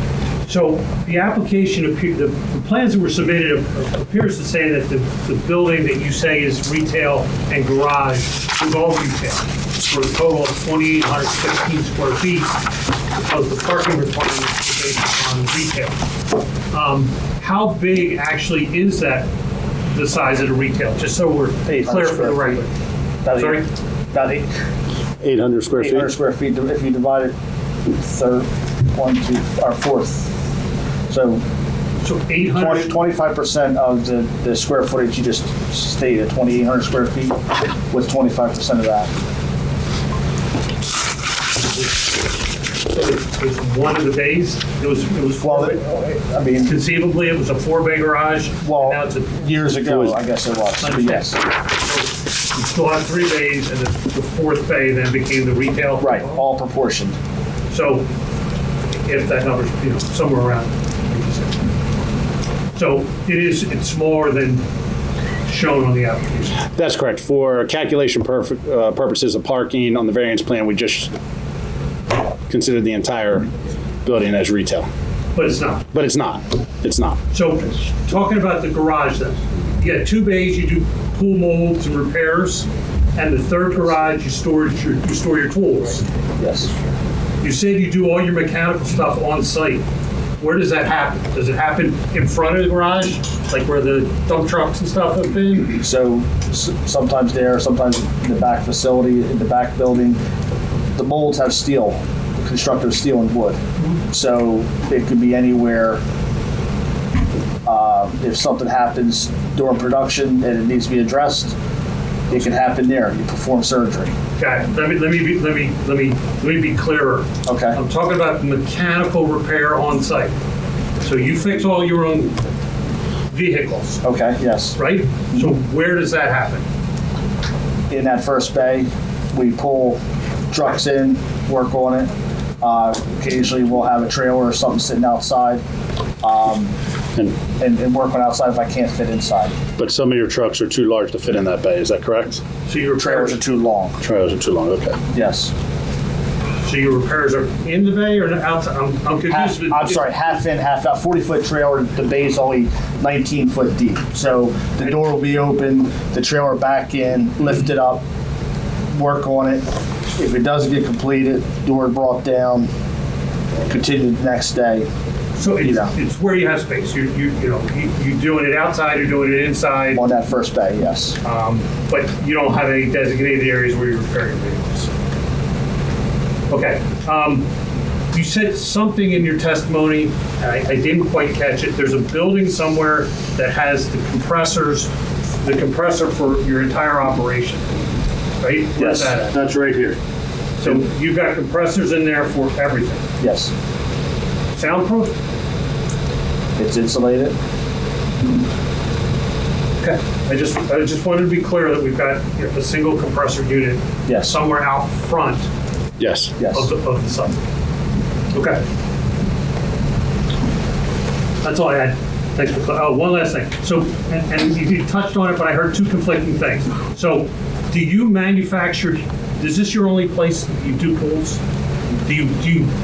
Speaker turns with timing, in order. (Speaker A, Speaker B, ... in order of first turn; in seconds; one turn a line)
Speaker A: 0.5-12.5
Speaker A: 13.2-16.0
Speaker A: 16.7-19.3
Speaker A: 19.9-22.7
Speaker B: 21.6-22.6
Speaker B: 23.2-24.4
Speaker A: 23.3-23.6
Speaker C: 25.2-26.1
Speaker B: 25.8-27.3
Speaker B: 27.9-30.3
Speaker B: 31.1-31.4
Speaker A: 32.0-32.9
Speaker B: 32.5-39.1
Speaker A: 41.6-41.9
Speaker A: 42.9-45.8
Speaker B: 45.4-46.7
Speaker A: 46.6-49.4
Speaker B: 48.6-51.4
Speaker C: 49.9-50.1
Speaker A: 50.8-56.4
Speaker B: 56.0-57.1
Speaker A: 57.7-58.0
Speaker A: 59.0-61.6
Speaker A: 62.7-64.6
Speaker A: 65.5-66.6
Speaker C: 66.8-71.1
Speaker C: 72.5-73.5
Speaker C: 74.0-74.9
Speaker A: 75.3-75.9
Speaker C: 75.9-77.2
Speaker A: 77.3-86.0
Speaker B: 86.4-86.7
Speaker A: 87.4-89.8
Speaker A: 90.4-95.8
Speaker B: 95.8-100.2
Speaker B: 100.9-103.6
Speaker B: 104.1-106.0
Speaker B: 107.6-111.5
Speaker B: 112.3-114.1
Speaker A: 114.4-120.3
Speaker B: 117.4-117.8
Speaker A: 121.0-122.4
Speaker A: 123.3-124.0
Speaker B: 124.0-124.8
Speaker A: 124.8-126.6
Speaker B: 127.9-135.6
Speaker B: 136.2-136.7
Speaker B: 137.6-139.5
Speaker C: 139.8-142.4
Speaker A: 142.7-143.4
Speaker B: 143.0-144.0
Speaker C: 144.0-145.0
Speaker B: 145.1-145.5
Speaker A: 146.6-150.0
Speaker B: 149.3-158.0
Speaker B: 158.9-162.7
Speaker B: 163.7-164.9
Speaker A: 165.3-170.0
Speaker B: 165.6-165.9
Speaker B: 169.9-171.2
Speaker A: 171.2-174.9
Speaker A: 176.5-177.5
Speaker A: 178.1-184.9
Speaker A: 185.4-187.6
Speaker A: 188.4-189.4
Speaker B: 188.8-189.1
Speaker C: 189.3-190.0
Speaker A: 190.6-193.0
Speaker B: 193.2-193.5
Speaker A: 194.6-195.1
Speaker B: 196.6-197.3
Speaker A: 199.8-205.5
Speaker B: 204.1-204.3
Speaker C: 206.0-206.3
Speaker B: 206.4-206.7
Speaker A: 206.5-207.4
Speaker A: 208.3-208.6
Speaker A: 211.4-221.4
Speaker A: 222.0-222.7